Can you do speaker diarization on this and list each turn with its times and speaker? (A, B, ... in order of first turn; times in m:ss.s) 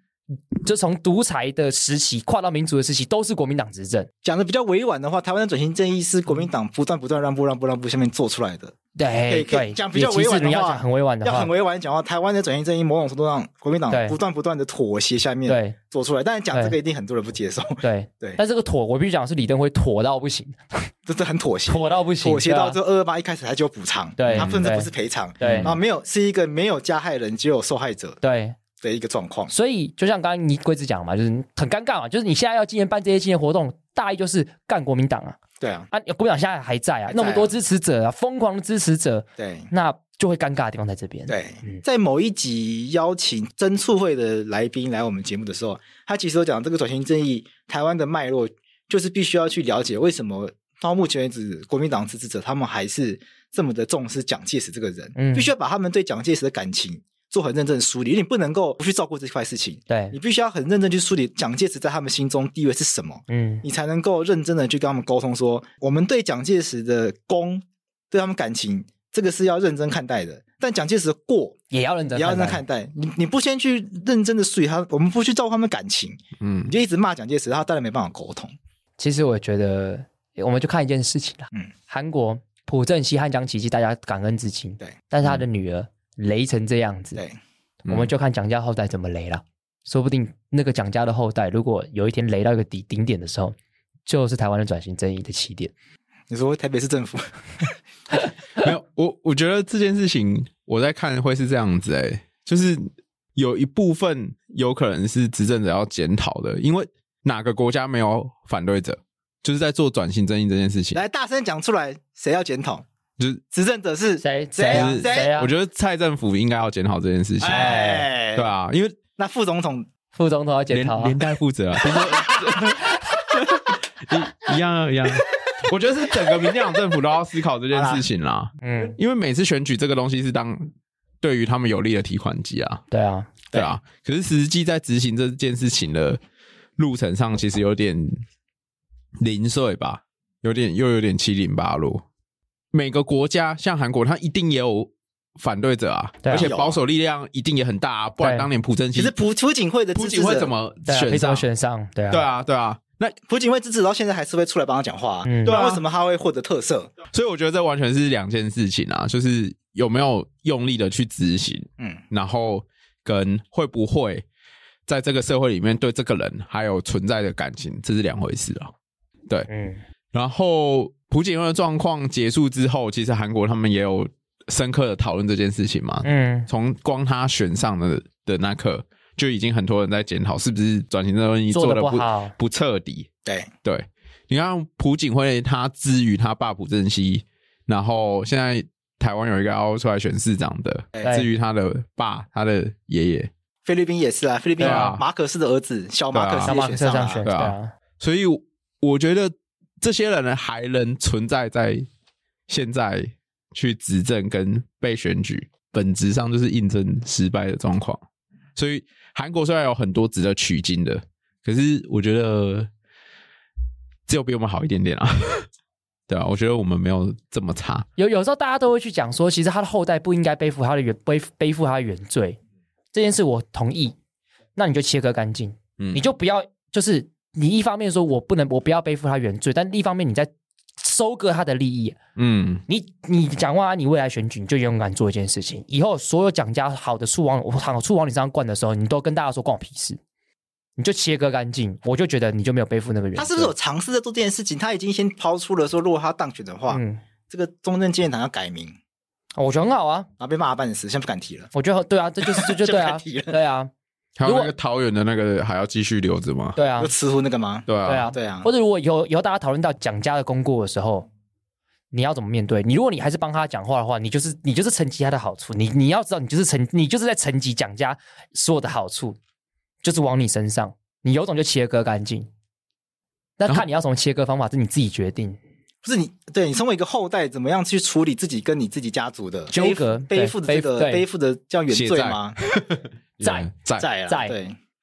0:00.6-0:04.1 A
0:04.2-0:18.4 B
0:09.0-0:11.5 A
0:13.9-0:14.2 A
0:15.5-0:15.8 A
0:17.8-0:20.9 A
0:21.1-0:28.2 B
0:21.7-0:22.8 A
0:24.2-0:25.7 A
0:24.3-0:24.6 C
0:25.4-0:25.7 C
0:28.2-0:28.6 A
0:28.8-0:29.5 B
0:29.5-0:35.4 A
0:35.6-0:35.9 B
0:35.9-0:41.8 A
0:37.1-0:37.5 B
0:39.4-0:39.7 B
0:41.3-1:11.6 B
0:55.2-0:55.5 A
0:59.9-1:00.1 A
1:03.3-1:03.6 A
1:11.7-1:12.6 A
1:12.1-1:18.5 B
1:16.4-1:16.7 C
1:19.0-1:27.2 A
1:27.8-1:28.1 C
1:27.8-1:35.7 A
1:36.3-1:37.6 B
1:38.6-1:51.0 C
1:50.9-1:52.8 B
1:53.5-1:55.3 B
1:54.2-1:55.5 A
1:54.7-1:57.8 C
1:57.4-1:58.5 B
1:57.5-1:58.1 A
1:58.3-1:59.0 C
1:59.2-1:59.9 B
2:00.1-2:01.2 A
2:00.7-2:12.8 C
2:07.7-2:08.0 B
2:08.6-2:09.0 A
2:12.9-2:13.4 A
2:13.5-2:16.2 C
2:16.8-2:18.2 C
2:19.2-2:22.0 C
2:22.7-2:29.2 C
2:26.2-2:26.5 A
2:26.3-2:26.8 B
2:28.2-2:28.5 A
2:28.9-2:30.5 B
2:29.9-2:31.5 C
2:30.9-2:32.2 A
2:32.1-2:33.1 C
2:33.3-2:36.9 B
2:35.2-2:35.6 A
2:35.4-2:35.8 C
2:37.1-2:44.2 C
2:44.9-2:48.7 C
2:49.5-2:49.8 A
2:50.1-3:03.1 C
2:56.0-2:56.5 A
3:01.5-3:02.3 A
3:03.2-3:03.5 B
3:03.6-3:13.3 C
3:10.9-3:11.2 B
3:13.6-3:17.3 B
3:14.6-3:15.0 A
3:14.6-3:15.0 C
3:16.1-3:16.5 C
3:16.4-3:17.7 A
3:17.2-3:21.9 C
3:22.5-3:28.0 C
3:28.5-3:32.7 C
3:34.1-3:35.5 C
3:36.1-3:37.9 C
3:38.0-3:42.4 A
3:42.9-3:43.9 A
3:44.6-3:52.0 A
3:52.2-3:52.6 C
3:52.7-4:00.0 A
4:00.8-4:03.5 A
4:03.2-4:08.7 B
4:06.7-4:07.0 A
4:09.4-4:10.1 A
4:10.2-4:11.5 B
4:11.5-4:13.7 A
4:12.2-4:13.4 B
4:14.2-4:16.6 C
4:14.2-4:14.5 A
4:16.6-4:16.9 A
4:16.8-4:18.5 B
4:17.7-4:18.1 C
4:17.8-4:21.1 A
4:21.9-4:29.2 A
4:29.8-4:32.3 A
4:33.4-4:35.4 A
4:35.8-4:42.4 B
4:39.5-4:41.0 A
4:41.7-4:43.8 C
4:43.2-4:43.5 A
4:43.8-4:44.6 B
4:44.0-4:44.3 A